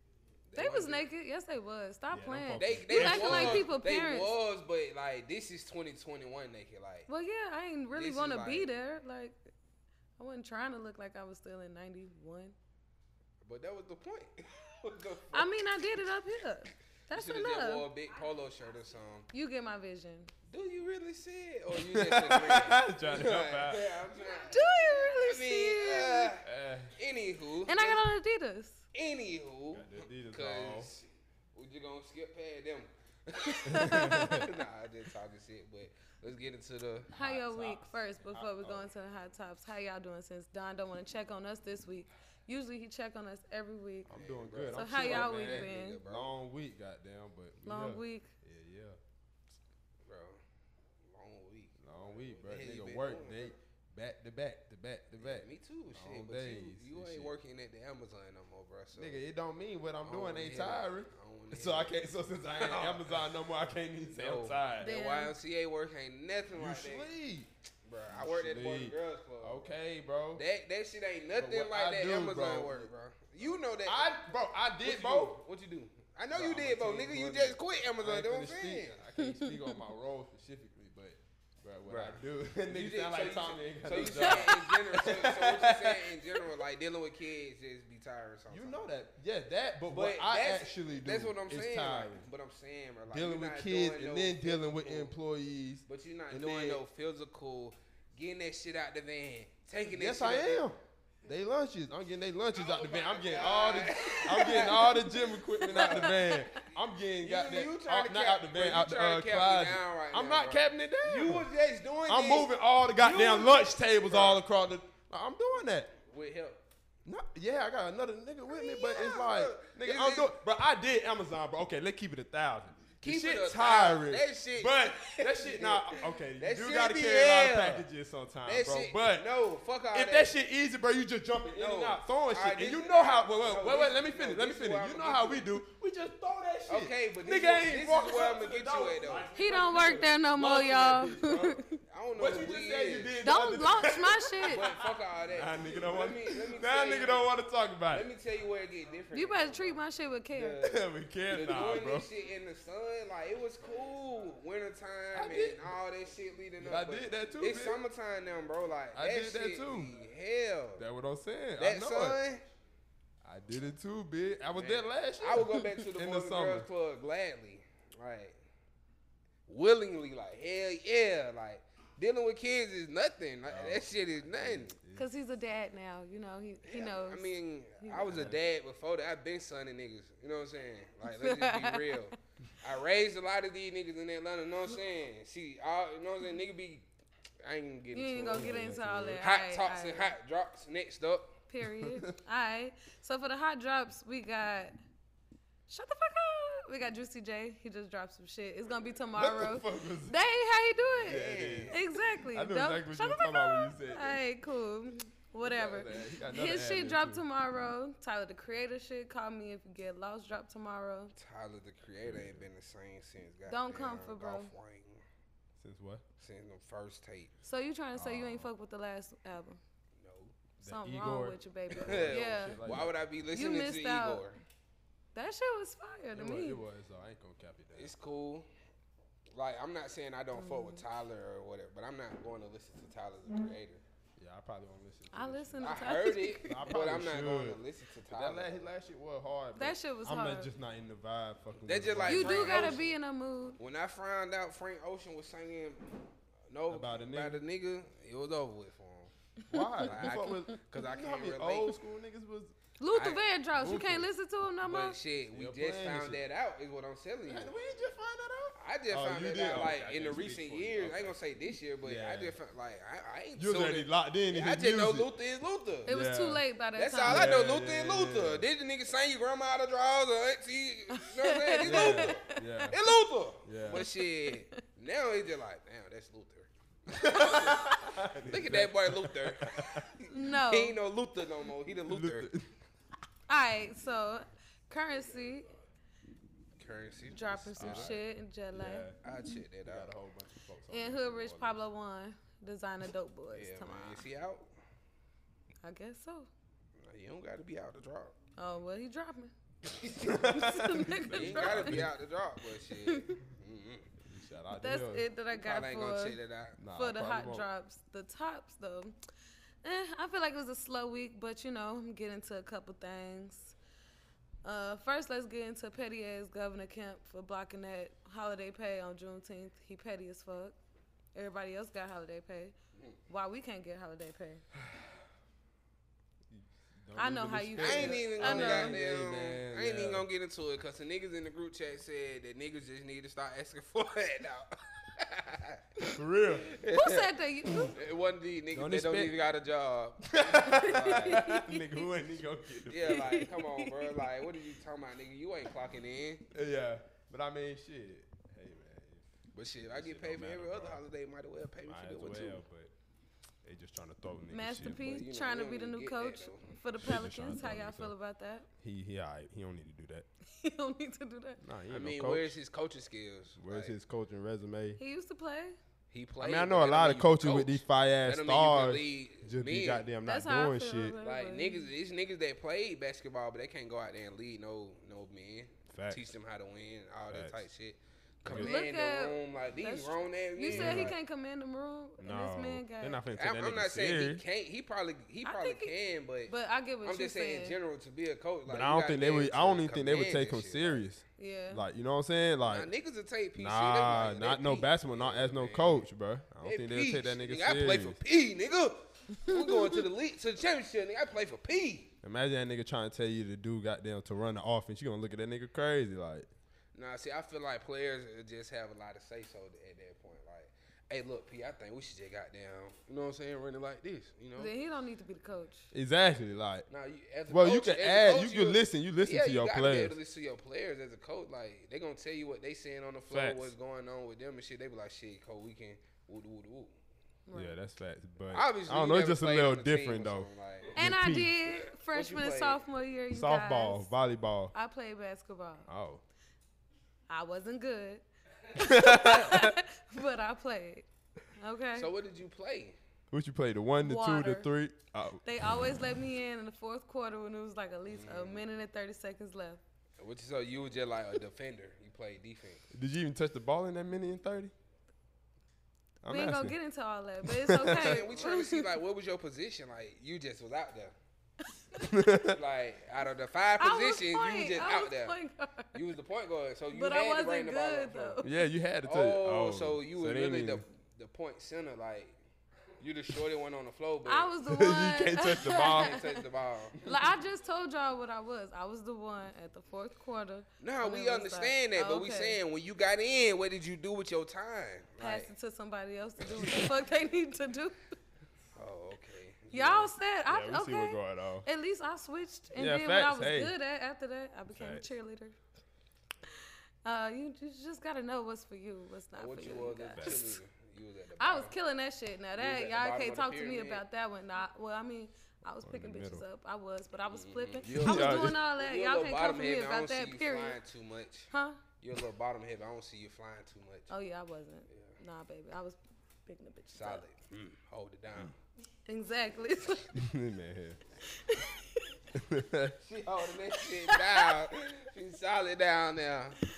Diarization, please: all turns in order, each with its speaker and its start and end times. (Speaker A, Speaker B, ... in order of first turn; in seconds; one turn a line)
Speaker A: 0.5-1.0
Speaker B: 0.5-4.3
Speaker C: 2.1-3.7
Speaker A: 2.6-7.1
Speaker B: 7.1-9.3
Speaker A: 7.9-8.7
Speaker B: 10.2-12.5
Speaker A: 13.4-15.6
Speaker B: 15.3-17.9
Speaker A: 17.1-19.3
Speaker B: 19.3-20.3
Speaker A: 20.5-28.0
Speaker C: 21.8-24.0
Speaker B: 24.4-26.3
Speaker C: 26.4-26.9
Speaker B: 27.6-28.8
Speaker A: 28.9-31.0
Speaker C: 29.7-30.9
Speaker A: 31.6-37.1
Speaker B: 33.5-34.5
Speaker C: 33.7-34.4
Speaker C: 37.1-38.9
Speaker B: 37.1-44.1
Speaker C: 44.0-49.0
Speaker A: 44.1-46.3
Speaker B: 44.7-46.0
Speaker B: 47.6-48.3
Speaker A: 50.0-50.4
Speaker A: 51.1-53.5
Speaker C: 51.8-57.3
Speaker A: 55.2-59.2
Speaker C: 58.9-64.9
Speaker A: 60.0-61.9
Speaker A: 62.5-63.2
Speaker A: 64.1-67.1
Speaker B: 64.8-65.3
Speaker C: 66.5-67.5
Speaker A: 67.8-69.6
Speaker C: 68.1-70.4
Speaker A: 70.4-74.1
Speaker C: 71.3-72.9
Speaker C: 73.8-75.4
Speaker A: 74.8-79.0
Speaker C: 76.3-86.2
Speaker B: 79.2-79.8
Speaker A: 81.9-88.9
Speaker C: 88.5-92.3
Speaker A: 89.9-95.1
Speaker C: 93.1-96.8
Speaker A: 95.9-100.6
Speaker C: 99.9-111.5
Speaker A: 102.5-105.1
Speaker A: 105.6-106.4
Speaker B: 105.7-106.1
Speaker A: 107.2-114.4
Speaker C: 112.1-115.9
Speaker A: 116.1-116.6
Speaker C: 117.0-129.3
Speaker A: 118.5-120.3
Speaker A: 123.0-127.8
Speaker A: 128.4-130.3
Speaker C: 129.9-141.6
Speaker A: 131.5-135.5
Speaker A: 136.7-139.3
Speaker B: 139.3-141.8
Speaker A: 141.9-143.1
Speaker C: 142.1-148.1
Speaker B: 143.2-144.6
Speaker A: 144.5-147.2
Speaker A: 147.9-149.8
Speaker B: 149.1-150.6
Speaker A: 150.3-160.8
Speaker C: 150.6-152.1
Speaker C: 155.1-155.7
Speaker C: 156.6-157.8
Speaker C: 158.9-159.9
Speaker C: 160.8-162.2
Speaker A: 161.6-162.4
Speaker C: 163.2-166.7
Speaker A: 164.5-168.3
Speaker A: 169.5-174.8
Speaker C: 173.5-175.1
Speaker B: 174.9-178.0
Speaker A: 176.6-186.8
Speaker C: 178.0-178.4
Speaker B: 181.1-182.0
Speaker A: 187.4-188.6
Speaker B: 187.9-190.1
Speaker C: 188.3-189.2
Speaker A: 189.2-191.3
Speaker B: 191.5-194.8
Speaker C: 191.8-192.1
Speaker B: 195.7-211.1
Speaker C: 199.1-200.2
Speaker C: 201.0-201.8
Speaker A: 201.0-201.8
Speaker C: 202.3-204.2
Speaker C: 205.4-207.2
Speaker A: 211.2-215.0
Speaker C: 212.0-212.5
Speaker B: 213.5-214.5
Speaker C: 215.6-216.0
Speaker A: 216.2-217.3
Speaker B: 217.4-219.6
Speaker C: 217.9-218.5
Speaker A: 220.0-220.3
Speaker B: 220.6-222.6
Speaker C: 220.6-222.9
Speaker A: 221.8-224.4
Speaker B: 223.3-224.2
Speaker B: 225.1-226.6
Speaker C: 226.1-227.9
Speaker A: 227.7-228.5
Speaker A: 229.3-233.8
Speaker B: 230.3-230.8
Speaker C: 234.2-242.8
Speaker B: 235.1-236.5
Speaker A: 235.6-238.7
Speaker B: 239.6-240.5
Speaker A: 241.6-242.9
Speaker B: 242.1-243.6
Speaker A: 243.6-245.8
Speaker A: 246.5-249.1
Speaker C: 246.7-247.4
Speaker C: 249.5-252.5
Speaker B: 249.5-250.5
Speaker A: 249.8-251.8
Speaker B: 252.8-255.0
Speaker A: 252.9-253.3
Speaker C: 253.5-254.1
Speaker A: 254.6-257.5
Speaker C: 255.3-256.2
Speaker C: 257.3-261.2
Speaker A: 258.6-265.9
Speaker C: 261.8-262.4
Speaker C: 263.4-265.1
Speaker C: 265.9-266.4
Speaker B: 265.9-267.3
Speaker A: 266.8-282.3
Speaker C: 267.0-268.4
Speaker B: 270.9-272.7
Speaker C: 271.6-272.8
Speaker C: 273.4-273.9
Speaker B: 273.7-274.6
Speaker C: 276.9-279.9
Speaker B: 280.1-280.8
Speaker C: 281.9-282.5
Speaker B: 283.3-285.5
Speaker A: 286.6-287.9
Speaker B: 287.1-288.9
Speaker C: 287.6-289.0
Speaker A: 289.0-289.9
Speaker C: 289.6-291.6
Speaker B: 290.7-294.0
Speaker A: 293.3-294.4
Speaker B: 295.6-296.3
Speaker A: 296.8-298.1
Speaker B: 298.4-299.3
Speaker A: 299.8-300.1
Speaker C: 300.0-301.9
Speaker B: 300.1-301.8
Speaker A: 301.1-303.9
Speaker B: 302.9-303.2
Speaker C: 304.0-305.1
Speaker B: 304.6-306.2
Speaker A: 305.3-306.6
Speaker C: 306.6-307.4
Speaker B: 306.7-308.9
Speaker B: 309.6-313.5
Speaker B: 314.4-320.6
Speaker B: 321.1-322.5
Speaker B: 323.1-324.4
Speaker C: 326.3-330.1
Speaker B: 326.9-328.7
Speaker A: 327.6-337.1
Speaker C: 335.9-336.5
Speaker B: 336.7-337.8
Speaker A: 337.7-341.4
Speaker C: 338.5-339.1
Speaker C: 340.1-343.2
Speaker A: 342.7-346.2
Speaker B: 342.9-343.7
Speaker C: 346.3-349.0
Speaker A: 349.3-352.4
Speaker C: 349.6-350.8
Speaker C: 351.6-352.7
Speaker C: 353.4-354.9
Speaker B: 354.3-358.5
Speaker A: 354.8-356.5
Speaker C: 356.8-357.9
Speaker C: 358.6-360.1
Speaker B: 360.3-361.4
Speaker C: 361.4-362.3
Speaker A: 361.7-363.7
Speaker C: 363.4-364.8
Speaker B: 364.8-365.6
Speaker A: 365.9-369.8
Speaker C: 366.2-371.0
Speaker B: 370.0-371.7
Speaker A: 371.0-380.9
Speaker C: 375.7-376.0
Speaker C: 377.1-377.4
Speaker C: 378.2-378.6
Speaker B: 378.3-383.0
Speaker C: 380.5-380.9
Speaker C: 382.0-384.2
Speaker A: 383.2-386.3
Speaker B: 385.2-385.7
Speaker B: 386.3-387.6
Speaker A: 386.8-390.8
Speaker C: 388.5-392.7
Speaker B: 391.2-391.6
Speaker A: 392.4-395.8
Speaker C: 393.4-398.0
Speaker A: 396.4-401.9
Speaker B: 399.2-399.8
Speaker C: 402.0-406.3
Speaker A: 406.7-414.5
Speaker B: 414.4-415.7
Speaker C: 415.7-416.7
Speaker A: 416.7-426.7
Speaker C: 417.3-419.9
Speaker C: 423.1-423.5
Speaker B: 427.3-427.6
Speaker C: 427.3-431.3
Speaker A: 428.3-430.7
Speaker B: 430.7-433.9
Speaker A: 431.6-432.6
Speaker C: 433.1-434.5
Speaker B: 434.5-435.7
Speaker C: 435.7-436.0
Speaker B: 437.1-438.0
Speaker B: 438.5-441.9
Speaker C: 438.6-439.5
Speaker A: 441.8-442.8
Speaker C: 443.1-445.2
Speaker B: 443.8-444.5
Speaker B: 445.2-449.6
Speaker A: 447.9-448.4
Speaker A: 450.0-452.6
Speaker C: 452.7-454.5
Speaker C: 456.0-456.6
Speaker B: 456.1-458.7
Speaker C: 457.2-458.0
Speaker A: 457.8-460.9
Speaker C: 461.8-462.4
Speaker A: 462.3-465.1
Speaker B: 463.6-465.7
Speaker A: 465.7-468.2
Speaker B: 466.7-468.3
Speaker C: 468.2-470.6
Speaker A: 468.8-472.1
Speaker A: 472.8-474.3
Speaker B: 474.1-476.1
Speaker C: 474.4-476.0
Speaker A: 475.6-476.8
Speaker B: 476.8-482.4
Speaker A: 480.6-485.3
Speaker B: 485.0-487.8
Speaker A: 488.6-489.9
Speaker B: 489.5-495.3
Speaker C: 490.3-491.4
Speaker C: 492.5-493.5
Speaker C: 494.5-494.9
Speaker B: 496.8-500.4
Speaker A: 499.2-501.5
Speaker C: 499.9-500.2
Speaker B: 501.2-510.6
Speaker A: 502.4-503.8
Speaker C: 505.6-506.2
Speaker A: 507.1-511.3
Speaker C: 507.6-508.4
Speaker B: 511.3-511.6
Speaker A: 511.8-513.9
Speaker B: 513.9-517.0
Speaker A: 514.7-514.9
Speaker A: 516.7-518.3
Speaker B: 518.9-520.0
Speaker C: 519.9-520.8
Speaker B: 521.1-521.8
Speaker C: 522.1-522.8
Speaker A: 522.8-526.4
Speaker B: 523.6-524.3